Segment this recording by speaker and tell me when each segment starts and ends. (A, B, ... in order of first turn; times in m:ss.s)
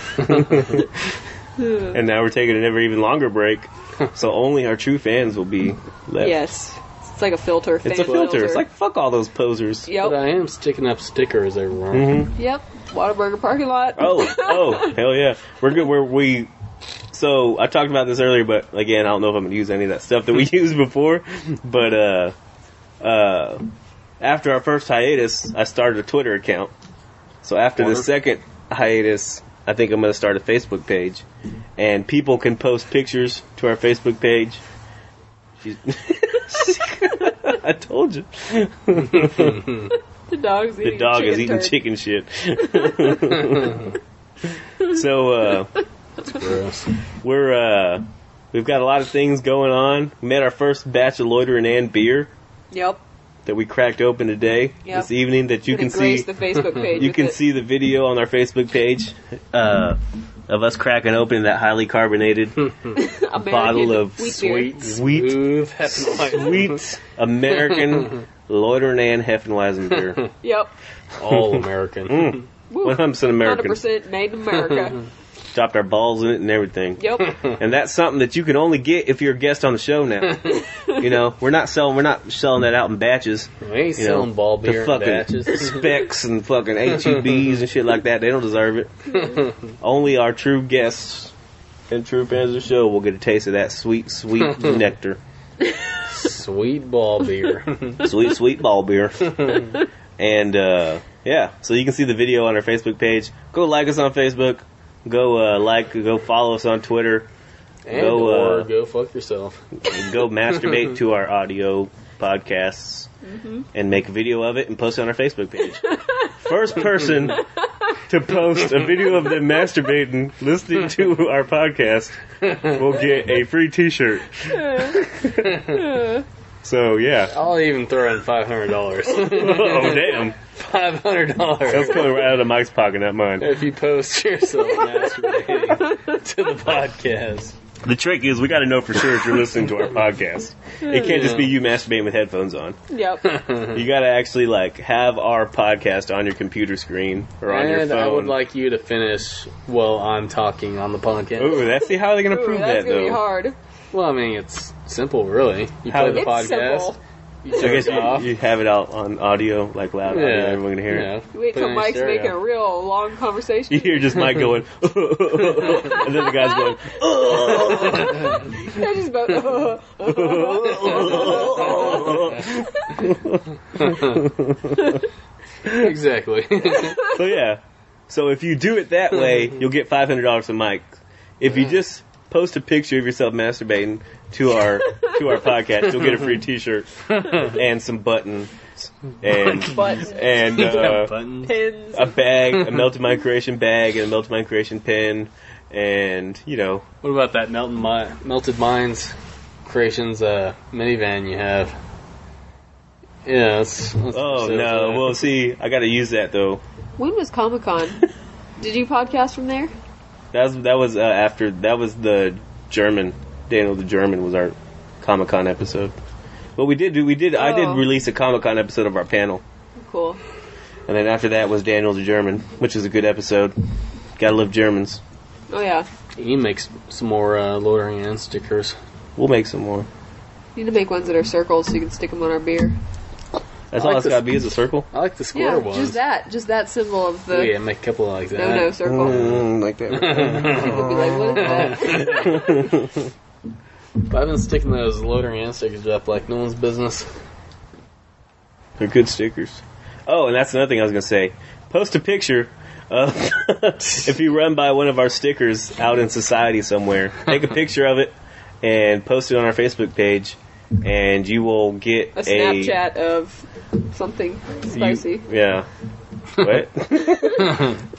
0:00.2-0:00.6 A
0:00.3-0:00.9 B
0:01.6-0:02.0 C
0:01.9-0:06.5 B
0:06.2-0:08.6 C
0:07.8-0:09.9 B
0:09.9-0:10.2 C
0:10.0-0:12.1 A
0:11.9-0:12.3 B
0:12.4-0:14.9 C
0:14.0-0:16.5 B
0:17.1-0:22.3 B
0:23.0-0:23.6 B
0:24.2-0:26.7 B
0:27.4-0:31.2 B
0:27.8-0:28.1 A
0:31.8-0:34.6 B
0:35.6-0:39.6 B
0:39.1-0:39.9 A
0:40.3-0:41.8 C
0:40.8-0:43.8 B
0:42.7-0:43.2 C
0:43.4-0:43.9 A
0:44.8-0:45.7 B
0:46.2-0:46.9 A
0:47.2-0:52.3 B
0:52.7-0:53.0 C
0:53.4-0:56.3 B
0:55.6-0:57.4 C
0:56.9-1:02.5 B
1:03.0-1:04.8 C
1:03.4-1:10.2 B
1:04.2-1:06.8 A
1:10.4-1:10.7 C
1:11.2-1:12.4 A
1:11.3-1:13.8 B
1:12.7-1:15.0 C
1:15.5-1:28.9 B
1:17.0-1:17.3 C
1:23.6-1:25.8 A
1:27.1-1:27.5 A
1:29.2-1:29.5 A
1:29.8-1:31.3 B
1:31.9-1:35.2 B
1:36.1-1:38.1 A
1:38.0-1:39.3 B
1:39.3-1:39.8 A
1:40.2-1:47.3 B
1:47.8-1:49.6 A
1:47.9-1:48.7 B
1:49.9-1:53.1 B
1:53.2-1:53.6 C
1:53.7-1:55.9 B
1:55.9-1:56.2 C
1:56.4-1:57.4 B
1:58.1-2:02.2 B
2:02.4-2:02.7 A
2:02.7-2:05.4 B
2:04.5-2:05.0 C
2:05.4-2:05.8 A
2:05.7-2:06.2 C
2:06.6-2:07.3 B
2:07.3-2:12.2 A
2:09.2-2:10.4 B
2:11.7-2:13.5 B
2:13.4-2:17.6 A
2:15.7-2:16.0 C
2:17.8-2:22.8 B
2:20.8-2:21.2 C
2:21.0-2:21.5 A
2:22.9-2:23.2 C
2:23.2-2:23.8 A
2:23.7-2:28.3 B
2:27.4-2:31.6 A
2:31.4-2:33.2 B
2:31.7-2:33.6 C
2:33.9-2:38.3 A
2:35.9-2:36.5 B
2:36.1-2:37.0 C
2:37.6-2:41.1 B
2:40.1-2:42.4 A
2:41.3-2:44.2 C
2:43.7-2:48.4 B
2:45.9-2:52.6 C
2:50.0-2:55.0 B
2:53.8-2:54.2 A
2:55.7-2:57.0 A
2:57.0-3:00.8 B
3:01.4-3:11.1 B
3:07.1-3:07.6 A
3:09.3-3:11.5 A
3:09.7-3:10.9 C
3:11.4-3:12.2 C
3:11.9-3:16.8 B
3:17.0-3:19.1 A
3:19.6-3:21.8 A
3:23.2-3:25.2 A
3:24.1-3:26.6 B
3:27.0-3:28.0 C
3:28.6-3:29.7 C
3:30.3-3:35.9 B
3:36.6-3:39.4 B
3:37.3-3:37.9 C
3:39.8-3:40.2 C
3:40.9-3:43.6 B
3:44.2-3:45.0 B
3:45.5-3:45.9 C
3:46.2-3:48.8 A
3:49.2-3:49.9 B
3:50.5-3:52.8 C
3:53.7-3:54.9 B
3:53.8-3:54.3 A
3:54.9-3:56.0 A
3:55.3-3:57.5 C
3:57.3-3:58.7 A
3:58.3-3:59.4 C
3:58.8-4:02.9 B
3:59.9-4:00.8 A
4:00.3-4:02.4 C
4:01.4-4:02.3 A
4:04.1-4:07.1 A
4:08.8-4:22.8 B
4:22.2-4:25.2 C
4:24.7-4:25.7 B
4:26.4-4:27.5 B
4:27.1-4:27.5 C
4:27.4-4:27.7 A